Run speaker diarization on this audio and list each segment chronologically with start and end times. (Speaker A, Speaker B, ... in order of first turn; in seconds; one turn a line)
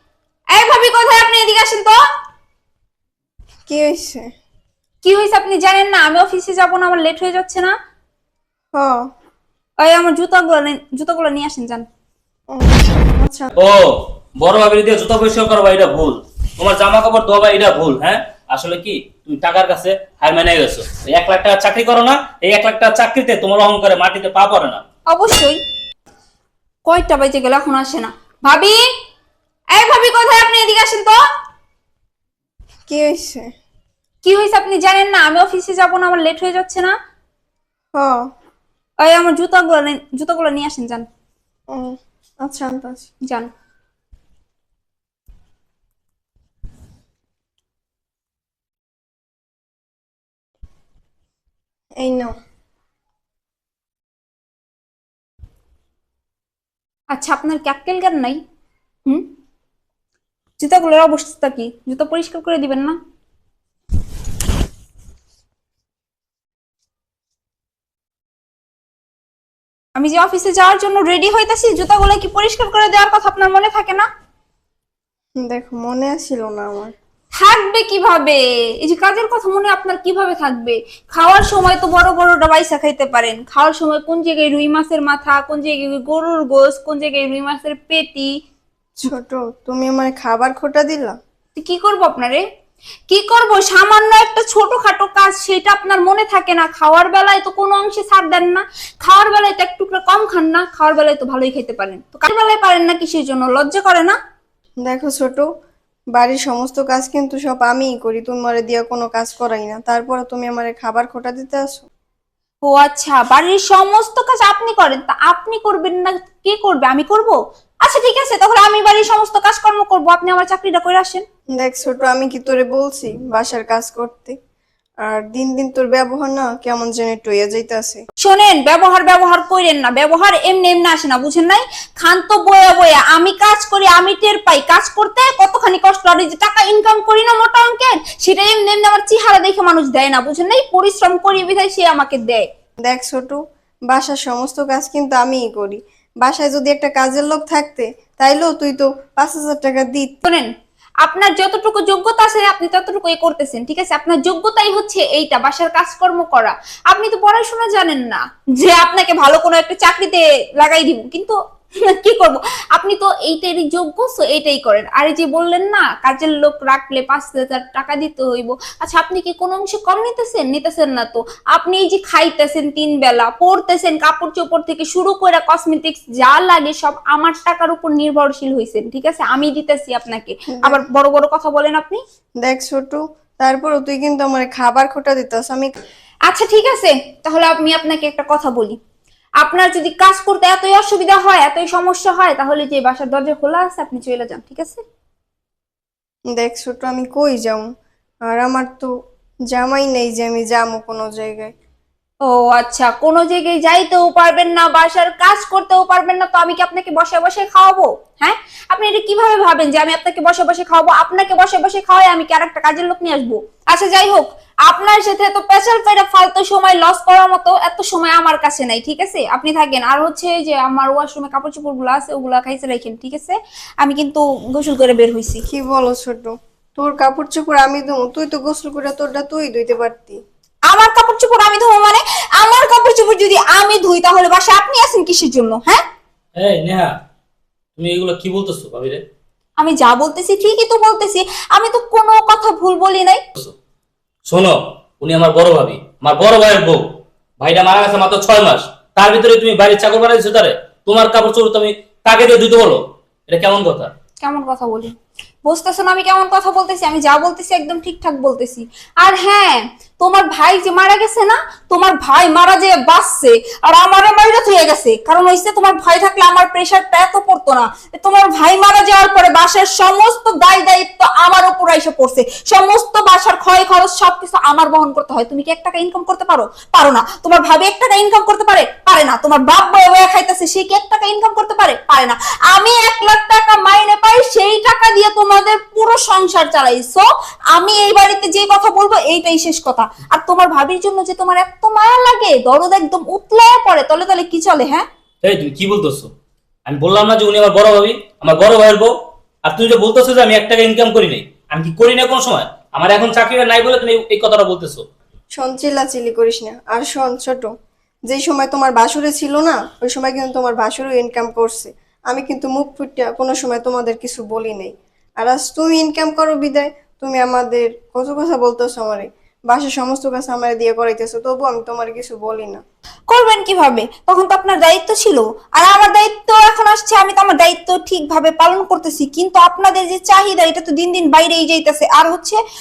Speaker A: 0.5-2.0
Speaker B: 3.7-4.3
Speaker A: 5.0-7.7
Speaker B: 8.7-9.0
Speaker A: 9.8-11.8
Speaker B: 12.5-13.5
Speaker C: 13.6-24.8
Speaker A: 25.1-25.6
Speaker A: 26.9-28.8
Speaker A: 29.7-31.2
Speaker B: 32.9-33.5
Speaker A: 34.2-36.9
Speaker B: 37.9-38.2
Speaker A: 39.0-41.0
Speaker B: 41.7-43.1
Speaker B: 52.0-52.3
Speaker A: 57.1-58.4
Speaker A: 60.6-63.0
Speaker A: 70.0-74.1
Speaker B: 75.4-76.9
Speaker A: 77.4-88.3
Speaker B: 89.0-91.2
Speaker A: 91.5-92.4
Speaker A: 93.1-104.2
Speaker B: 104.8-105.5
Speaker B: 106.1-111.9
Speaker A: 112.6-121.2
Speaker B: 121.5-124.3
Speaker B: 125.0-128.0
Speaker A: 128.2-142.4
Speaker B: 142.8-150.2
Speaker A: 151.0-182.0
Speaker B: 180.6-180.8
Speaker B: 182.4-185.7
Speaker A: 186.2-188.8
Speaker A: 189.4-194.8
Speaker B: 196.3-197.7
Speaker B: 198.2-198.9
Speaker B: 199.5-201.5
Speaker A: 202.2-225.4
Speaker B: 225.5-230.2
Speaker A: 230.7-235.8
Speaker C: 236.4-236.9
Speaker C: 237.8-239.0
Speaker A: 239.6-243.2
Speaker C: 244.3-246.8
Speaker C: 247.4-253.9
Speaker A: 254.2-254.9
Speaker A: 255.4-294.9
Speaker C: 295.2-296.1
Speaker C: 296.6-298.9
Speaker C: 299.4-304.9
Speaker B: 305.3-307.5
Speaker B: 308.1-322.6
Speaker A: 323.1-332.4